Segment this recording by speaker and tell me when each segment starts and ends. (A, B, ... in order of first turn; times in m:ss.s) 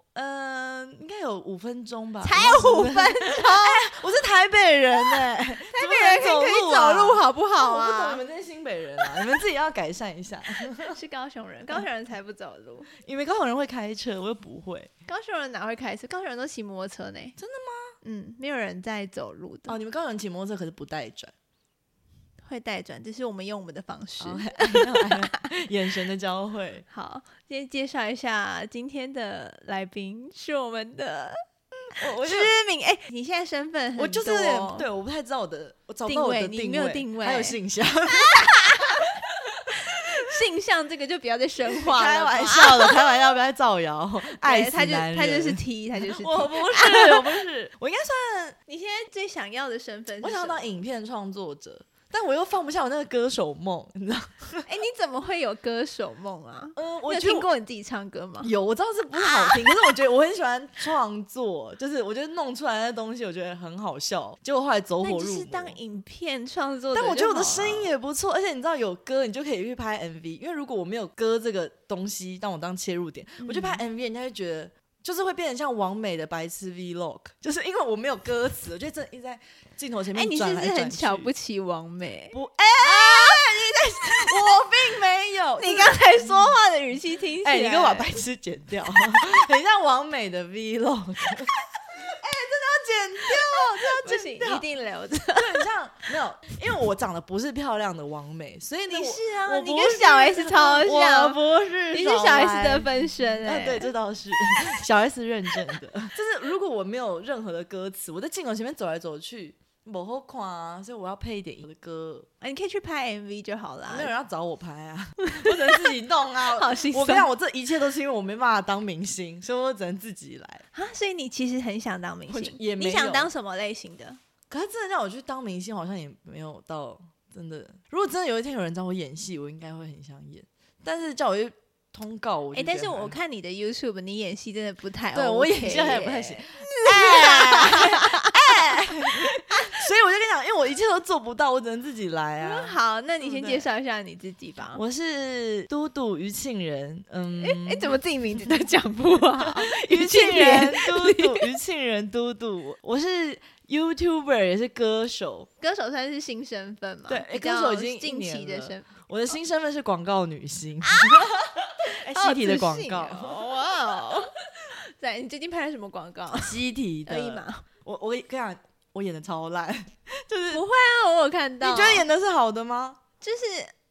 0:00.1-0:11.0 A
0:02.2-0:03.9 B
0:05.5-0:08.2 B
0:10.8-0:12.9 B
0:13.0-0:14.9 A
0:15.1-0:17.4 B
0:17.4-0:18.0 A
0:18.0-0:19.8 B
0:19.7-0:21.3 A
0:22.4-0:25.4 B
0:24.2-0:26.8 A
0:26.9-0:31.4 B
0:32.0-0:32.5 A
0:32.0-0:34.9 B
0:34.0-0:39.0 A
0:36.0-0:37.6 B
0:38.1-0:39.1 B
0:39.9-0:43.0 B
0:41.6-0:48.6 A
0:44.3-0:47.4 B
0:48.7-0:50.7 B
0:50.2-0:54.7 A
0:54.7-0:58.5 B
0:56.8-0:57.5 A
0:58.4-1:05.8 A
0:59.2-0:59.8 B
1:05.0-1:07.9 B
1:06.9-1:21.3 A
1:13.4-1:13.8 B
1:20.1-1:24.5 B
1:22.3-1:26.5 A
1:25.6-1:28.2 B
1:27.4-1:34.7 A
1:33.3-1:35.7 B
1:35.3-1:52.3 A
1:38.9-1:41.4 B
1:41.9-1:43.9 B
1:52.4-1:54.1 B
1:53.9-2:00.6 A
1:55.3-1:55.9 B
1:56.5-1:57.3 B
2:00.7-2:04.2 B
2:02.3-2:03.3 A
2:04.5-2:13.2 A
2:12.5-2:19.8 B
2:15.1-2:23.7 A
2:22.4-2:24.8 B
2:24.7-2:28.0 A
2:27.4-2:31.5 B
2:29.4-2:35.5 A
2:35.6-2:38.9 B
2:37.1-2:43.4 A
2:40.8-2:41.3 B
2:41.9-2:47.6 B
2:46.4-2:50.6 A
2:50.5-2:52.1 B
2:51.6-2:53.0 A
2:53.2-2:53.7 B